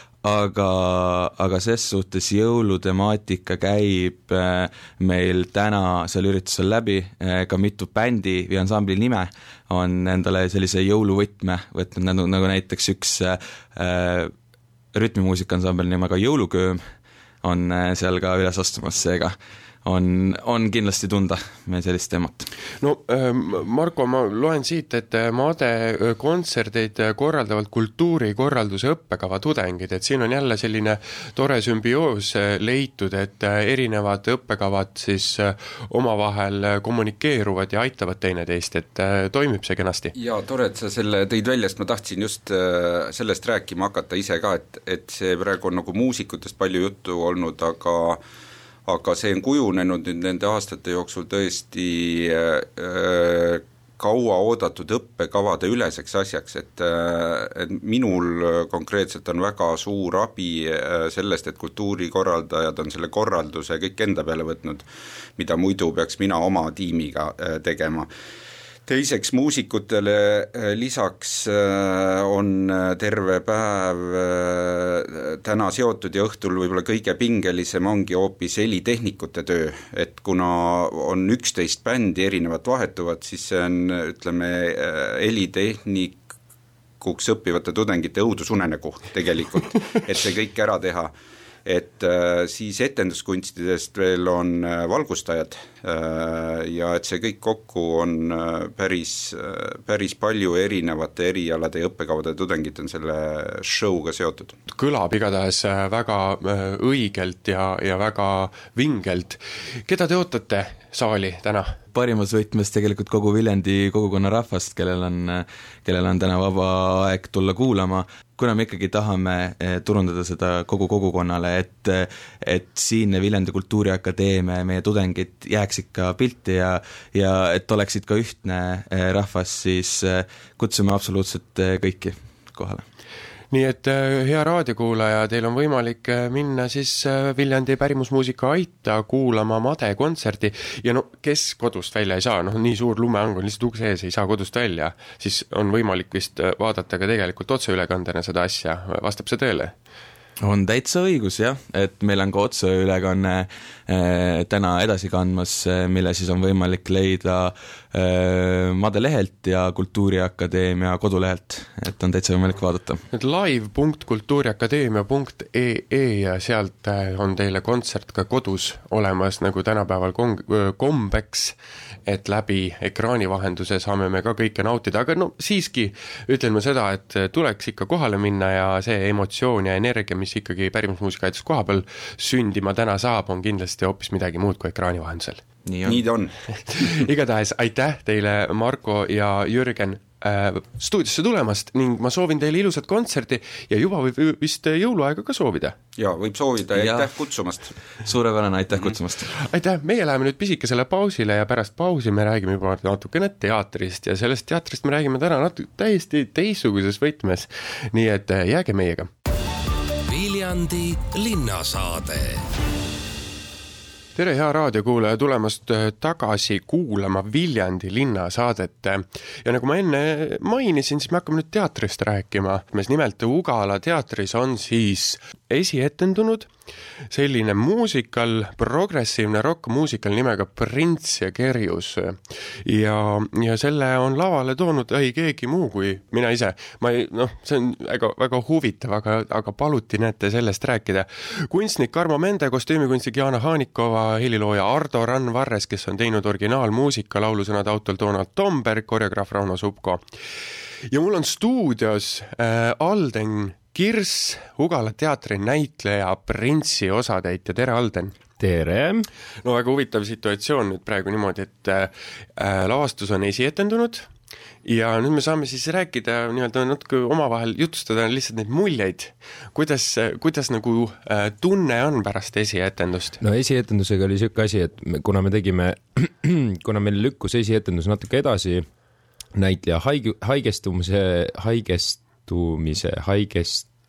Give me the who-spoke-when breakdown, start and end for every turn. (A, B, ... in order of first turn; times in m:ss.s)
0:00.2-0:14.3 A
0:14.9-0:16.8 A
0:17.4-0:22.4 A
0:22.8-0:40.1 B
0:40.1-0:48.2 C
0:48.9-1:04.9 C
1:05.4-1:08.1 C
1:08.9-1:26.2 C
1:27.0-1:31.1 C
1:31.7-1:44.5 C
1:44.7-1:51.7 B
1:51.9-2:12.8 A
2:13.5-2:29.8 B
2:30.4-2:43.0 A
2:43.1-3:05.4 B
3:05.7-3:06.0 A
3:05.8-3:06.4 C
3:06.6-3:15.8 B
3:16.0-3:17.7 C
3:16.8-3:17.1 A
3:18.0-3:19.3 A
3:19.4-3:29.1 B
3:30.1-3:32.4 D
3:34.2-3:46.5 B
3:47.1-4:10.0 B
4:10.9-4:18.1 B
4:18.4-4:19.1 E
4:19.4-4:24.1 B
4:24.6-4:33.2 B
4:33.2-4:38.6 E
4:39.4-4:43.7 E